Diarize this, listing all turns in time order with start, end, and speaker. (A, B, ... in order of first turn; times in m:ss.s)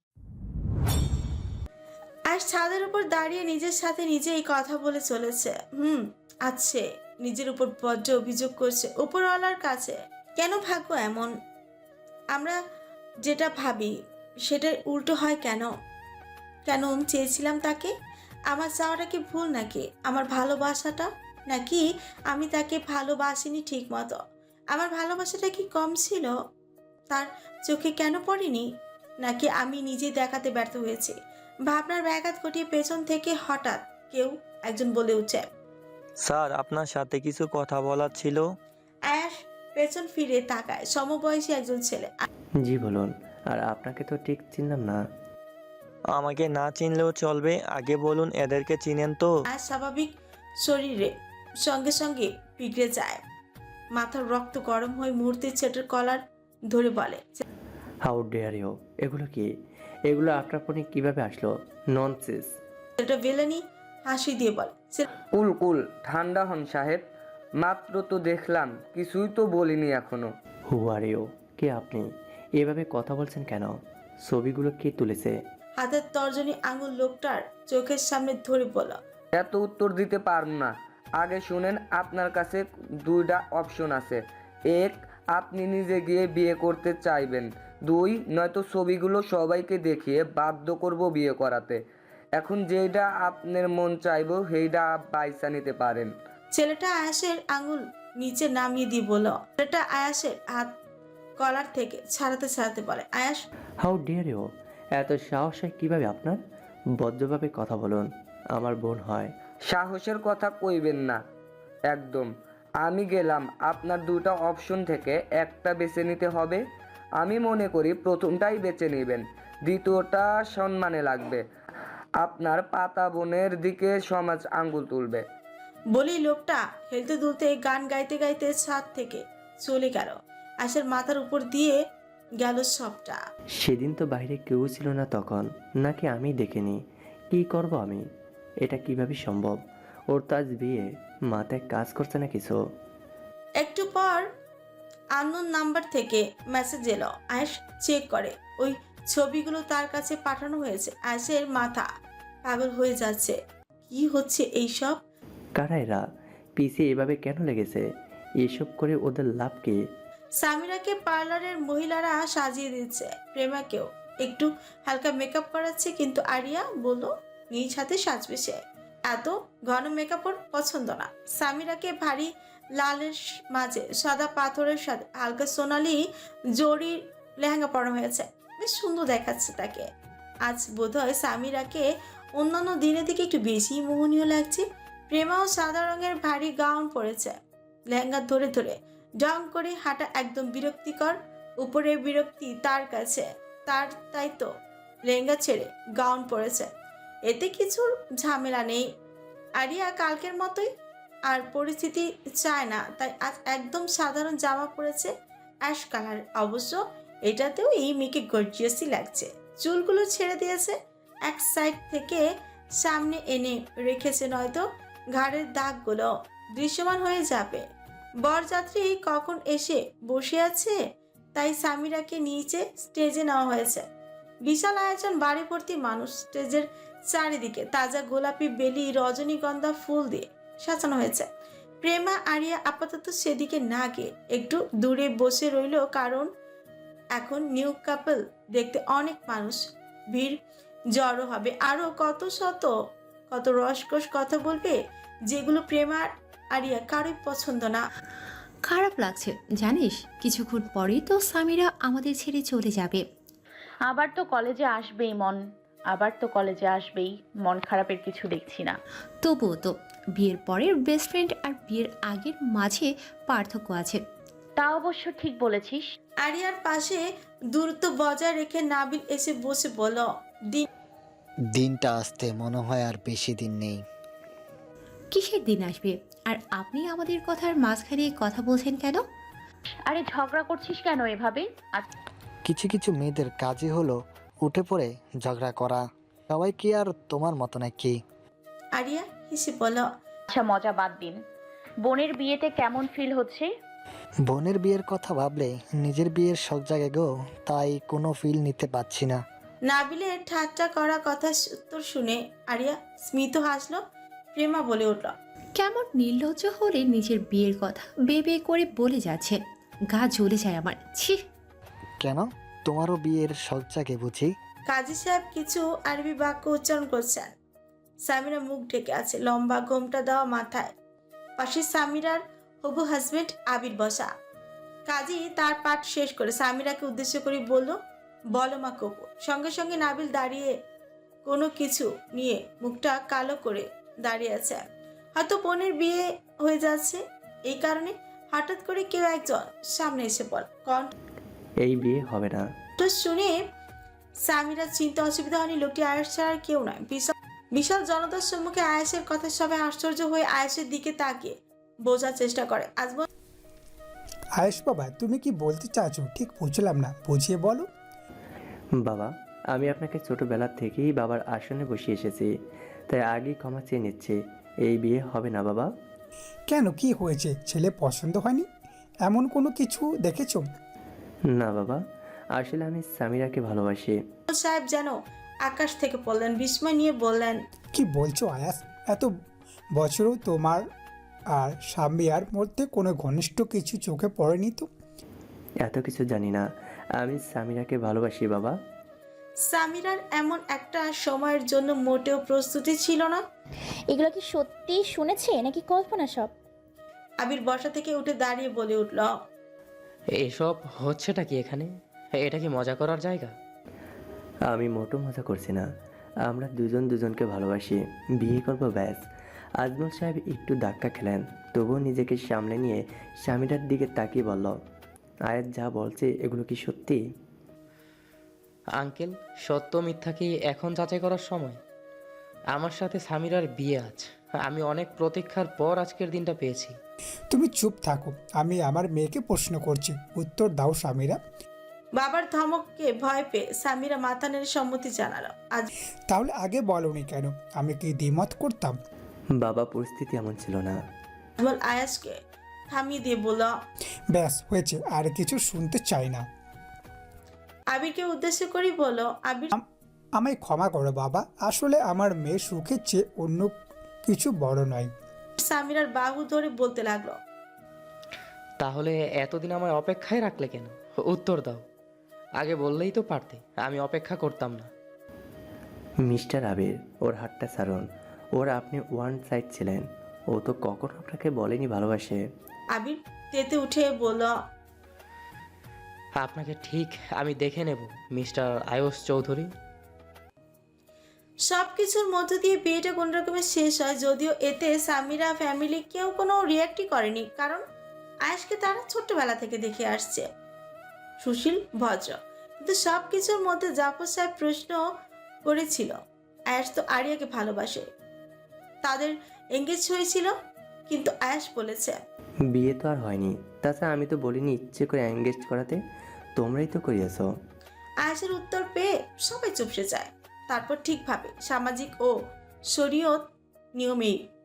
0:02.3-0:11.3 A
0:12.3-0:12.6 A
0:13.2-0:13.9 A
0:14.5-0:15.7 A
0:16.7-0:17.9 A
0:18.5-0:24.2 A
0:24.7-0:26.3 A
0:27.1-0:28.7 A
0:29.2-0:31.2 A
0:31.7-0:35.5 A
0:36.2-0:38.5 B
0:39.1-0:42.2 A
0:42.6-0:45.0 C
0:46.1-0:49.3 B
0:49.5-0:50.1 A
0:50.6-0:53.2 A
0:54.0-0:57.4 A
0:58.0-0:59.5 C
1:00.1-1:02.6 C
1:03.0-1:05.0 A
1:05.3-1:07.0 D
1:07.6-1:10.3 D
1:10.7-1:15.4 C
1:15.8-1:19.0 A
1:19.3-1:31.8 D
1:32.4-1:36.1 D
1:36.5-1:40.7 A
1:41.4-1:43.5 A
1:43.8-1:46.4 C
1:47.0-1:49.3 C
1:49.7-1:51.2 D
1:51.9-1:52.3 D
1:52.8-1:56.6 D
1:57.2-2:01.4 D
2:02.2-2:05.2 D
2:05.9-2:11.8 A
2:12.4-2:13.2 A
2:13.6-2:16.8 C
2:17.3-2:18.0 C
2:18.6-2:19.6 C
2:20.1-2:22.6 C
2:23.6-2:24.3 A
2:25.2-2:31.9 A
2:32.5-2:33.4 A
2:33.9-2:35.0 A
2:35.6-2:36.0 C
2:36.6-2:37.9 C
2:38.4-2:39.8 C
2:40.4-2:56.0 A
2:56.6-2:59.9 A
3:00.4-3:07.4 A
3:07.9-3:14.5 A
3:15.1-3:16.7 A
3:17.3-3:18.8 A
3:19.6-3:20.7 A
3:21.3-3:25.1 A
3:25.6-3:32.2 A
3:32.8-3:37.6 A
3:38.2-3:40.8 A
3:41.4-3:43.9 A
3:44.4-3:51.3 A
3:51.8-3:56.3 A
3:57.2-4:00.4 A
4:00.9-4:02.7 A
4:03.3-4:04.8 A
4:05.3-4:07.8 A
4:08.7-4:13.0 E
4:13.9-4:15.4 F
4:15.9-4:18.8 F
4:19.2-4:24.0 E
4:24.6-4:25.8 F
4:26.2-4:30.7 A
4:31.5-4:33.8 G
4:35.1-4:39.0 E
4:39.9-4:41.9 F
4:42.4-4:48.0 G
4:48.8-4:49.9 A
4:50.3-4:51.2 F
4:51.8-4:53.5 F
4:54.3-4:59.2 G
4:59.7-5:03.8 A
5:04.4-5:05.1 A
5:05.6-5:09.4 E
5:09.9-5:11.2 E
5:12.0-5:14.3 G
5:14.7-5:17.3 A
5:18.1-5:20.7 A
5:21.4-5:24.1 A
5:24.9-5:27.8 A
5:28.3-5:30.5 A
5:31.3-5:40.9 A
5:41.6-5:42.5 C
5:42.8-5:43.4 A
5:44.2-5:53.0 A
5:54.4-5:57.7 H
5:58.8-6:02.3 C
6:02.9-6:05.7 C
6:06.5-6:08.5 H
6:09.1-6:10.5 H
6:11.3-6:11.8 C
6:12.3-6:14.0 C
6:14.3-6:17.4 A
6:17.7-6:19.1 H
6:19.7-6:20.7 H
6:21.4-6:24.7 H
6:25.6-6:26.5 C
6:27.0-6:28.6 C
6:29.4-6:33.2 A
6:33.9-6:36.3 I
6:37.2-6:39.1 A
6:40.2-6:43.3 J
6:44.5-6:45.7 C
6:46.3-6:49.0 C
6:49.6-6:54.6 C
6:55.3-6:57.0 C
6:58.8-7:01.6 J
7:02.5-7:06.8 J
7:07.3-7:11.2 H
7:12.0-7:15.7 A
7:16.1-7:18.8 H
7:19.4-7:20.8 C
7:21.4-7:22.2 A
7:22.7-7:23.6 A
7:24.1-7:26.3 H
7:27.7-7:29.5 A
7:30.2-7:34.9 H
7:35.4-7:37.2 A
7:38.6-7:41.6 J
7:42.4-7:44.7 J
7:46.0-7:52.2 C
7:52.7-7:54.3 A
7:56.2-7:59.5 J
8:01.5-8:07.6 A
8:08.2-8:10.3 A
8:11.2-8:14.8 A
8:15.4-8:16.0 A
8:16.5-8:17.9 A
8:18.8-8:20.3 A
8:20.9-8:22.0 A
8:22.5-8:25.8 C
8:26.4-8:27.3 C
8:28.0-8:32.1 A
8:32.7-8:33.2 A
8:33.8-8:34.2 A